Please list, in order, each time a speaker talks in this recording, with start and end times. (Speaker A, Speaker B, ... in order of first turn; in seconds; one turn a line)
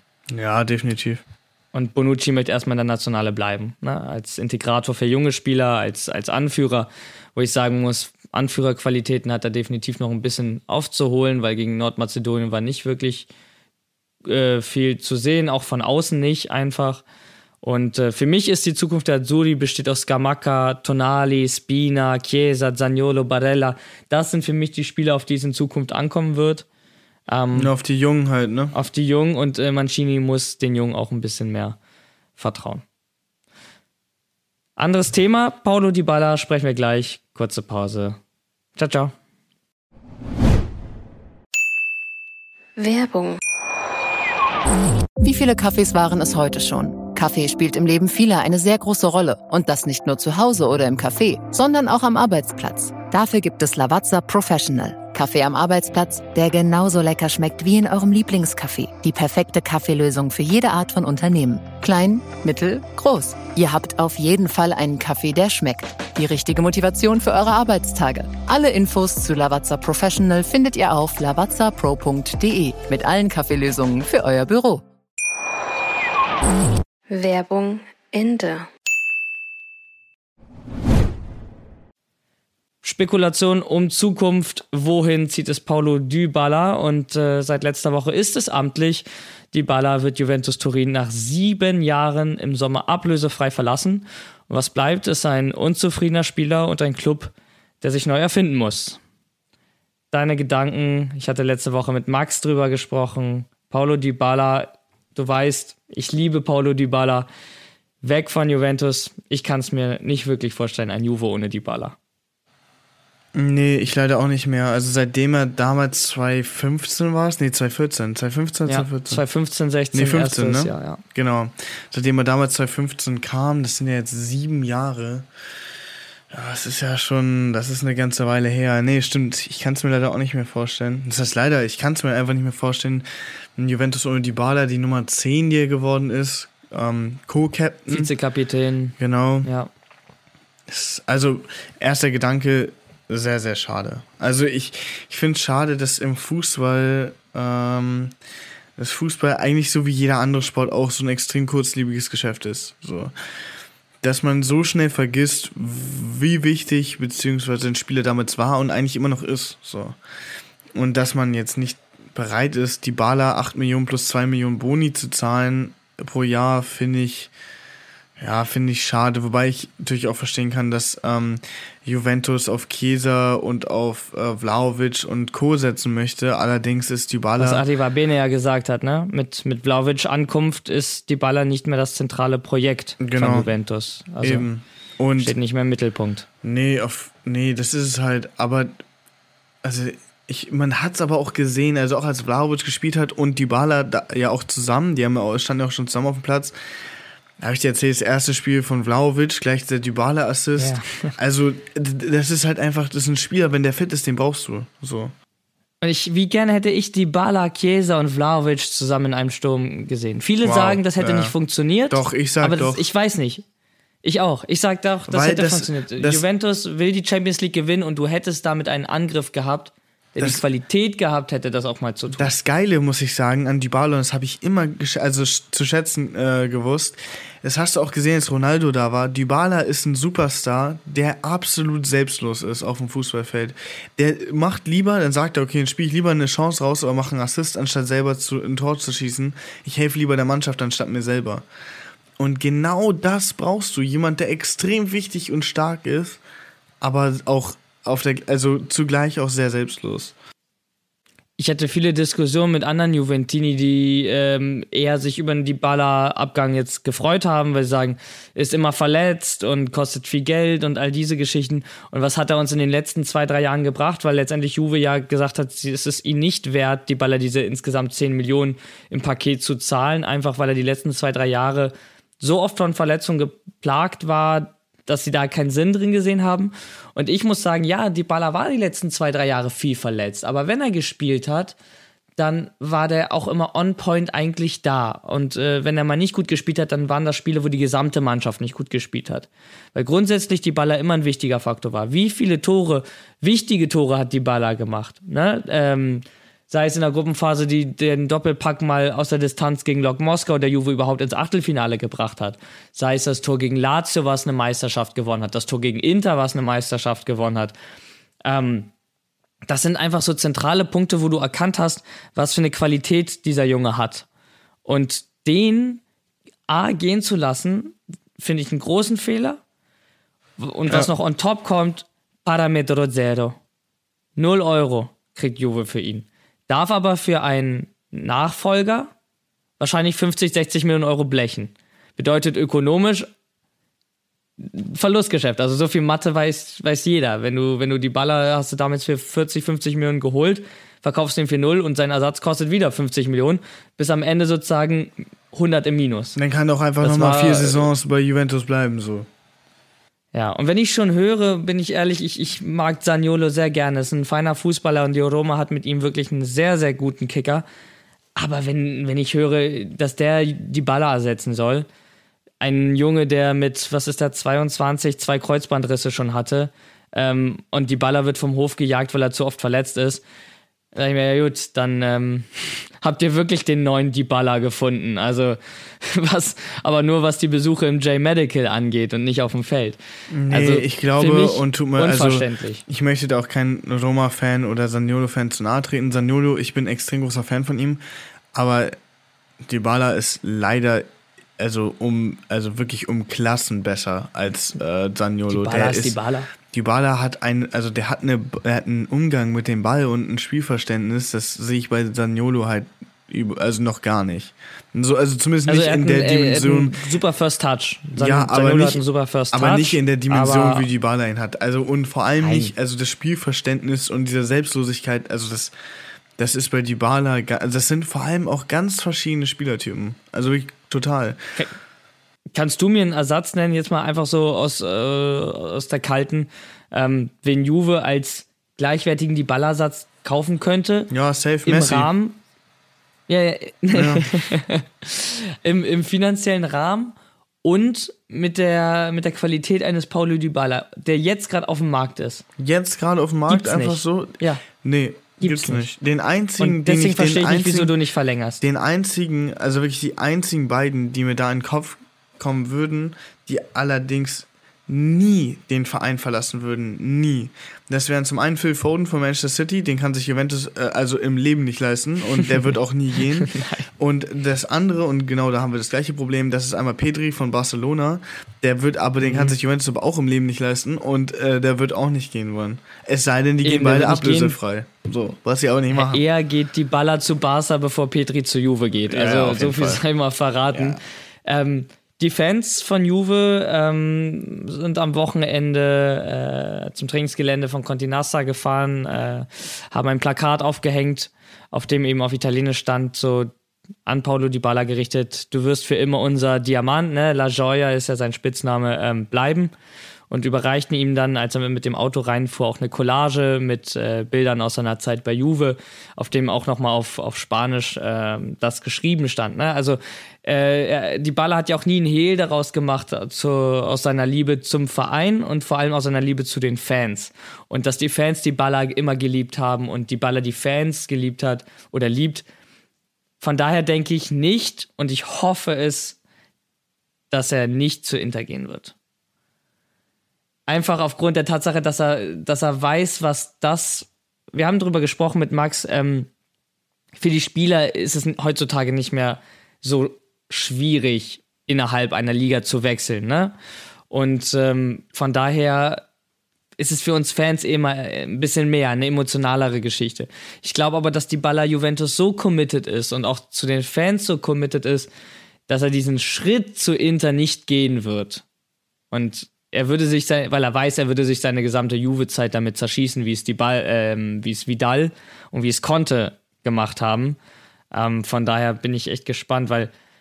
Speaker A: 0.3-1.2
Speaker B: 1.7-13.3
Speaker B: 14.3-17.0
Speaker B: 17.6-26.7
Speaker B: 27.3-27.7
Speaker A: 27.5-28.8
Speaker B: 28.7-31.8
Speaker B: 32.4-32.8
Speaker B: 34.8-38.2
Speaker B: 38.8-39.1
Speaker C: 42.8-43.4
Speaker D: 45.2-74.8
Speaker C: 77.1-78.7
Speaker B: 82.8-99.0
Speaker B: 100.1-107.3
Speaker B: 108.0-112.0
Speaker A: 113.3-119.2
Speaker B: 118.7-121.0
Speaker A: 119.9-125.3
Speaker A: 126.3-138.1
Speaker B: 137.9-139.7
Speaker A: 139.0-139.5
Speaker A: 140.7-148.2
Speaker A: 148.8-153.1
Speaker A: 154.0-160.0
Speaker A: 160.7-167.3
Speaker A: 168.2-177.7
Speaker B: 177.4-184.5
Speaker A: 183.0-183.5
Speaker A: 184.2-185.3
Speaker B: 185.2-186.3
Speaker A: 186.4-188.8
Speaker A: 189.6-196.6
Speaker A: 197.4-205.1
Speaker B: 200.6-201.1
Speaker B: 205.8-213.4
Speaker A: 210.4-211.4
Speaker A: 211.9-212.8
Speaker B: 214.0-222.3
Speaker A: 215.1-216.2
Speaker A: 222.2-241.4
Speaker A: 242.2-246.2
Speaker A: 246.8-250.1
Speaker B: 251.4-281.6
Speaker B: 282.2-307.6
Speaker B: 308.2-308.7
Speaker B: 309.5-314.1
Speaker B: 314.6-315.8
Speaker B: 316.5-319.4
Speaker B: 320.4-323.4
Speaker B: 324.2-328.9
Speaker B: 329.6-333.1
Speaker B: 334.4-346.2
Speaker A: 346.1-349.1
Speaker B: 346.8-347.7
Speaker B: 350.1-357.4
Speaker B: 358.2-361.7
Speaker B: 362.4-370.0
Speaker B: 370.8-382.6
Speaker A: 380.1-387.8
Speaker A: 388.3-388.8
Speaker A: 389.4-390.9
Speaker A: 391.4-406.8
Speaker B: 395.3-396.3
Speaker B: 405.5-410.7
Speaker A: 407.9-415.5
Speaker B: 412.2-412.5
Speaker A: 416.2-421.2
Speaker B: 422.4-430.9
Speaker A: 430.9-431.9
Speaker B: 431.5-432.2
Speaker B: 433.1-442.2
Speaker A: 433.7-434.1
Speaker A: 442.4-447.7
Speaker B: 443.3-444.4
Speaker B: 445.2-445.7
Speaker B: 446.4-448.4
Speaker A: 448.4-476.1
Speaker B: 463.2-463.7
Speaker B: 469.0-469.4
Speaker B: 473.4-474.4
Speaker B: 475.7-493.3
Speaker A: 478.9-479.8
Speaker A: 480.5-480.8
Speaker B: 493.9-499.5
Speaker B: 500.1-522.2
Speaker B: 523.2-526.0
Speaker B: 527.1-528.7
Speaker B: 530.5-536.1
Speaker B: 537.0-543.4
Speaker B: 543.9-545.8
Speaker B: 546.6-554.9
Speaker B: 555.5-558.2
Speaker B: 558.9-567.2
Speaker B: 567.7-569.7